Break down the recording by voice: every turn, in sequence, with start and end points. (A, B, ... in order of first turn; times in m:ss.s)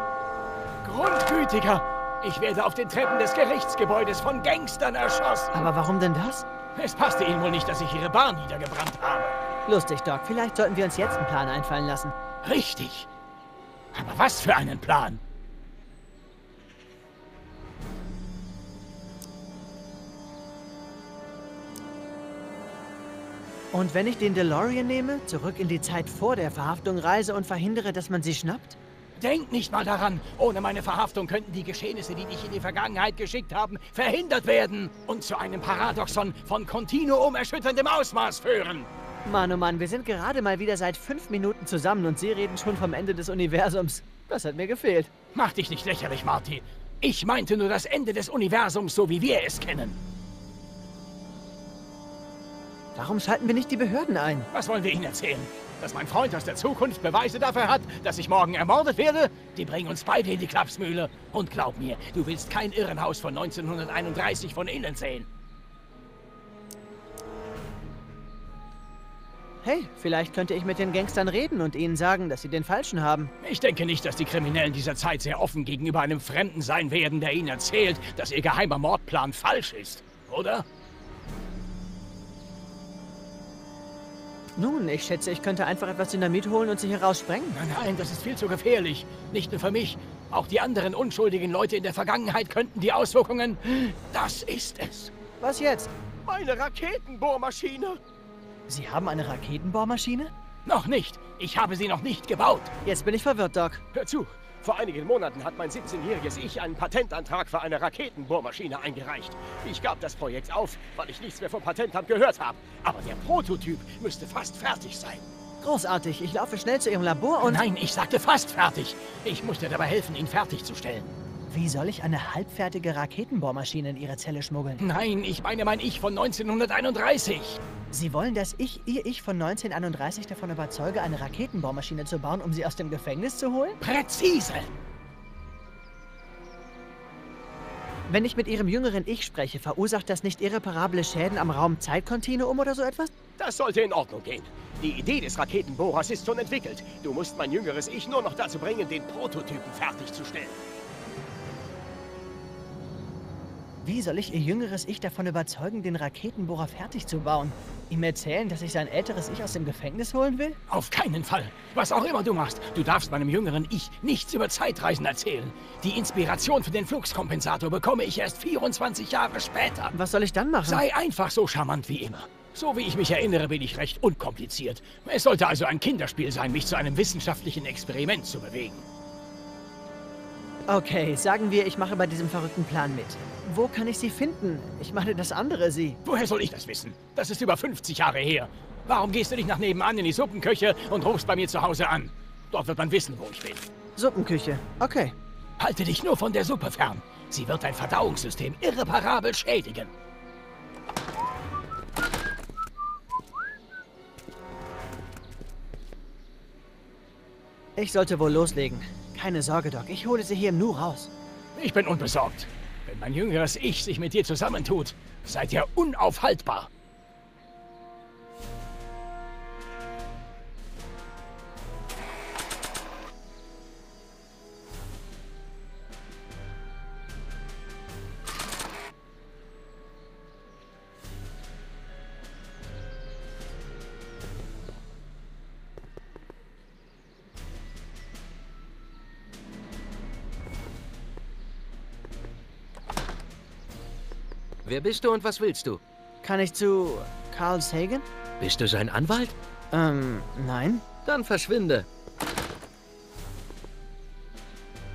0:00.8-0:05.7 A
0:05.5-0:06.5 B
0:06.8-0:09.4 A
0:09.7-0:12.2 B
0:12.4-0:13.1 A
0:13.9-0:15.2 A
0:23.7-0:28.8 B
0:29.2-0:38.9 A
0:39.2-0:45.1 B
0:45.3-0:50.0 A
0:53.0-0:54.5 B
0:54.5-1:05.3 A
1:09.6-1:13.3 B
1:13.4-1:20.7 A
1:24.6-1:27.6 B
1:27.5-1:35.1 A
1:35.4-1:35.9 B
1:36.3-1:38.0 C
1:38.7-1:40.3 B
1:40.7-1:42.7 A
1:42.8-1:43.8 B
1:44.0-1:44.6 A
1:44.6-1:52.8 C
1:52.6-1:55.2 A
1:55.6-1:57.6 B
1:57.4-2:01.1 A
2:01.5-2:04.8 B
2:04.8-2:07.6 A
2:07.9-2:13.8 B
2:13.8-2:14.7 A
2:18.1-2:23.1 B
2:23.4-2:30.5 C
2:33.8-2:40.6 B
2:40.7-2:49.9 A
2:49.9-2:50.9 B
2:50.6-2:58.9 A
3:00.7-3:06.0 B
3:06.0-3:13.6 A
3:14.0-3:15.2 B
3:15.6-3:19.9 A
3:27.8-3:31.1 B
3:31.6-3:36.7 A
4:04.6-4:05.8 D
4:06.2-4:08.1 B
4:08.4-4:09.4 D
4:09.7-4:10.8 B
4:11.1-4:11.9 D